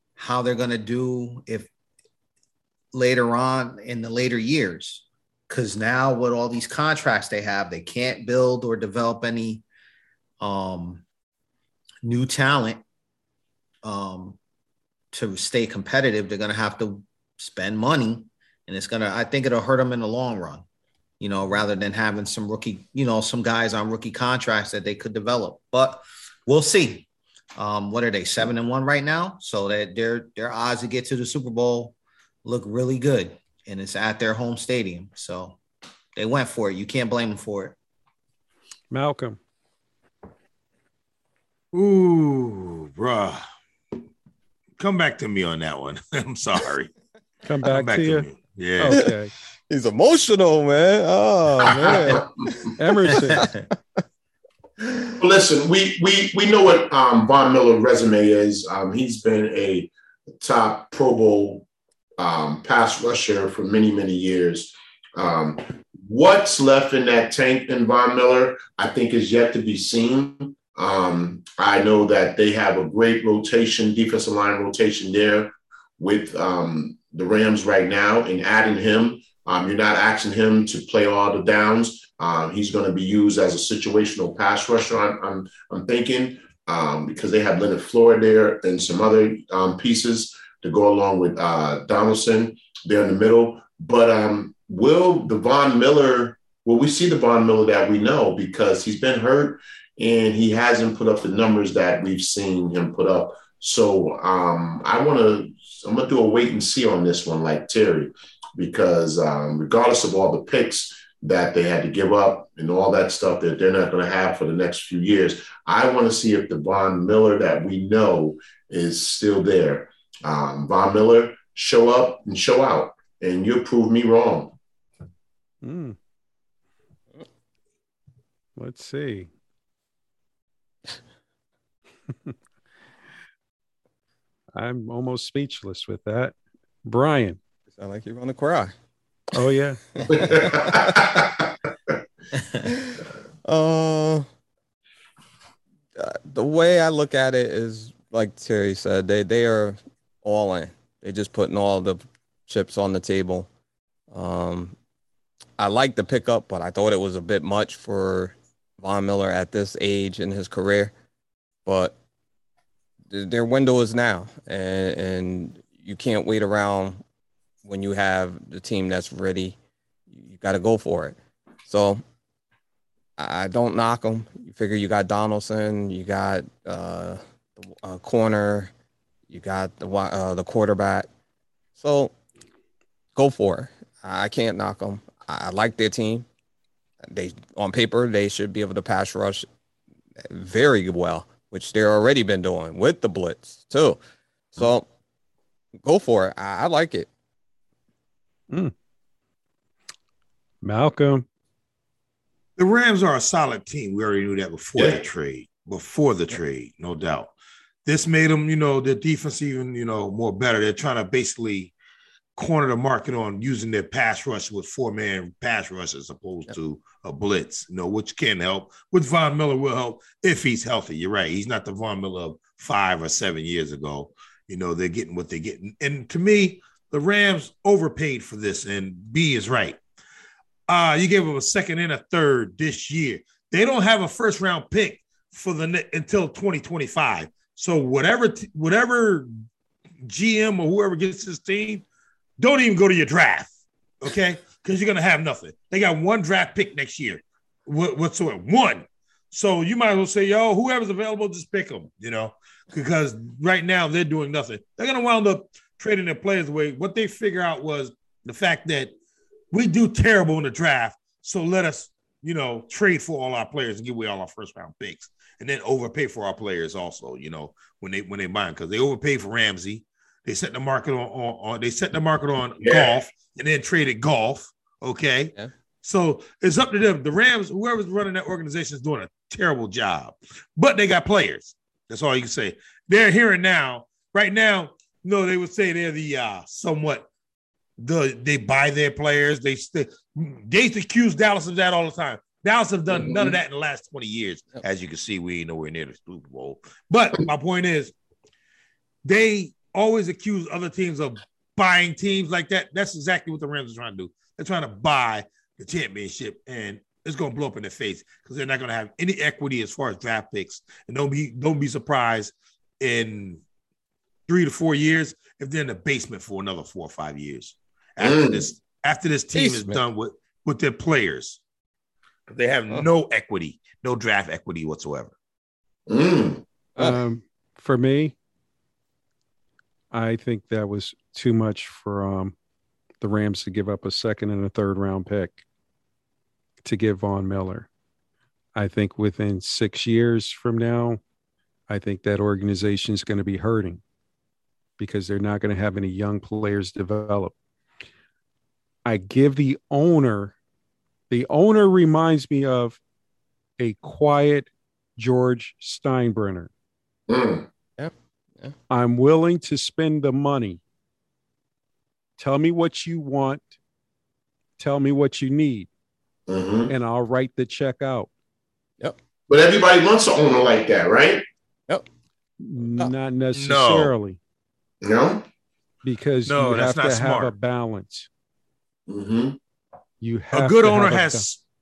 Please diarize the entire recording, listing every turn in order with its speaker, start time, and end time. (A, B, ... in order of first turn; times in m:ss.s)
0:00.2-0:01.7 A
0:02.9-0:09.6 A
0:10.4-0:11.0 A
0:12.0-0:12.8 A
0:13.8-0:14.4 A
0:15.1-0:20.7 A
0:21.2-0:35.6 A
0:36.2-0:37.8 A
0:38.9-0:39.4 B
0:41.7-0:43.4 C
0:44.8-0:46.9 C
0:47.4-0:48.3 B
0:47.6-0:49.0 C
0:48.8-0:49.3 B
0:49.7-0:53.6 D
0:51.7-0:52.3 E
0:52.8-0:53.5 B
0:53.3-0:53.7 A
0:54.8-0:55.1 D
0:55.2-1:01.7 E
1:02.2-2:04.6 E
2:05.6-2:06.0 B
2:08.6-2:09.3 B
2:14.6-2:16.4 B
2:16.9-2:17.4 B
2:17.7-2:18.7 D
2:19.3-2:19.8 B
2:20.0-2:21.1 D
2:20.0-2:22.0 E
2:22.6-2:24.3 D
2:26.0-2:33.5 D
2:34.1-2:34.8 D
2:35.6-2:40.9 D
2:41.7-2:42.0 D
2:43.1-2:47.0 D
2:47.6-2:49.6 D
2:50.1-2:52.0 D
2:53.2-2:58.7 D
2:59.3-3:01.1 D
3:01.8-3:02.1 D
3:03.1-3:06.3 D
3:07.0-3:09.5 D
3:10.2-3:14.0 D
3:14.5-3:14.9 D
3:15.8-3:17.1 D
3:20.6-3:21.2 B
3:22.6-3:27.3 C
3:27.8-3:31.7 C
3:32.4-3:49.8 C
3:50.7-3:59.3 C
4:00.0-4:01.8 C
4:02.4-4:18.9 C
4:19.5-4:47.1 C
4:32.6-4:33.0 E
4:47.8-4:57.9 C
4:53.0-4:53.4 E
4:59.0-5:13.4 C
5:14.3-5:21.4 C
5:18.0-5:18.5 E
5:19.3-5:19.8 D
5:22.3-5:25.1 C
5:25.9-5:26.4 E
5:26.8-5:28.1 B
5:29.9-5:32.4 B
5:33.0-5:35.4 B
5:36.6-5:37.7 B
5:38.6-5:41.0 B
5:41.7-5:43.8 B
5:44.8-5:47.3 B
5:48.9-5:50.4 B
5:51.1-5:52.8 B
5:53.6-5:56.5 B
5:57.1-5:57.4 E
5:57.8-5:58.5 D
5:58.7-6:00.6 B
6:02.2-6:03.5 B
6:04.6-6:05.7 B
6:06.3-6:06.7 E
6:06.7-6:08.1 B
6:09.3-6:11.2 E
6:12.4-6:14.2 B
6:13.3-6:13.9 C
6:14.8-6:15.2 E
6:15.8-6:18.1 B
6:16.3-6:17.3 C
6:18.9-6:19.4 E
6:20.0-6:21.3 B
6:20.3-6:21.4 C